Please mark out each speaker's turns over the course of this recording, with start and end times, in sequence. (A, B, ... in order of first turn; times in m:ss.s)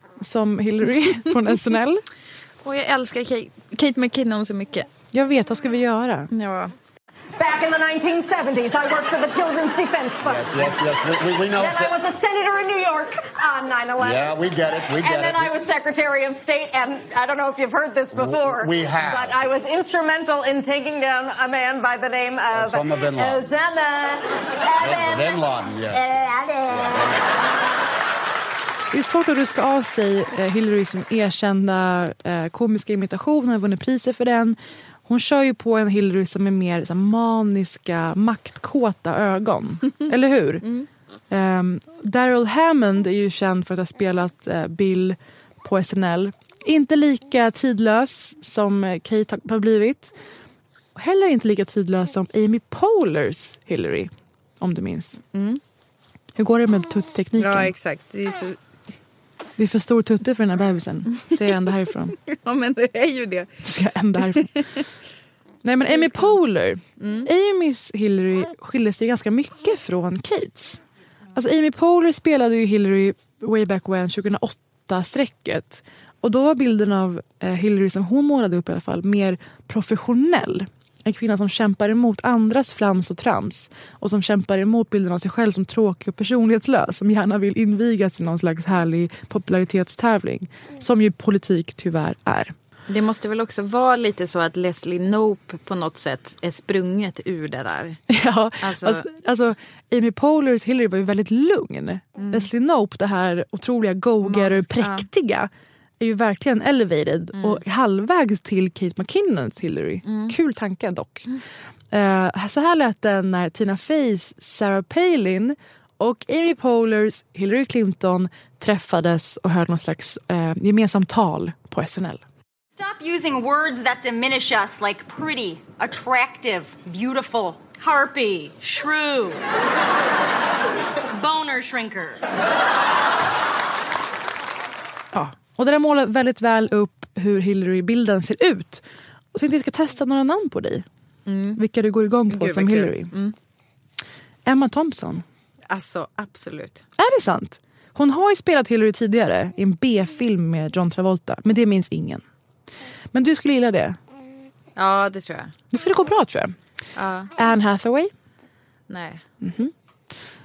0:00.2-0:02.0 A
0:02.6-0:04.9 B
0:05.1-0:06.3 A
0:06.3-0:06.7 B
0:07.4-0:10.9 C
0:10.2-0:12.0 D
0:11.5-0:25.3 C
0:14.0-0:15.5 D
0:18.1-0:19.4 D
0:22.5-0:23.4 D
0:24.8-0:26.1 D
0:25.9-0:27.0 C
0:26.7-0:27.2 D
0:28.9-0:40.7 A
0:41.3-0:50.1 A
0:50.9-0:55.2 A
0:55.3-0:55.6 B
0:56.4-0:57.7 A
0:57.4-0:58.6 B
0:59.6-1:02.2 A
1:02.2-1:03.5 B
1:03.6-1:04.5 A
1:04.3-1:04.8 B
1:05.6-1:10.8 A
1:05.9-1:06.4 B
1:07.0-1:07.3 B
1:11.3-1:32.5 A
1:32.9-1:38.0 B
1:38.1-1:51.4 A
1:38.6-1:39.0 B
1:42.2-1:42.5 B
1:44.2-1:45.0 B
1:47.4-1:47.6 B
1:50.0-1:50.3 B
1:51.9-2:02.2 A
2:02.7-2:09.3 E
2:11.2-2:12.2 E
2:15.1-2:20.8 A
2:21.2-2:21.6 B
2:21.6-2:23.1 A
2:22.3-2:23.3 B
2:24.4-2:25.2 A
2:25.7-2:26.8 B
2:27.0-2:32.2 A
2:33.1-2:34.0 A
2:34.8-2:35.5 B
2:35.7-2:36.6 A
2:37.0-2:37.3 B
2:37.4-2:38.1 A
2:38.9-2:39.2 B
2:39.4-2:39.7 A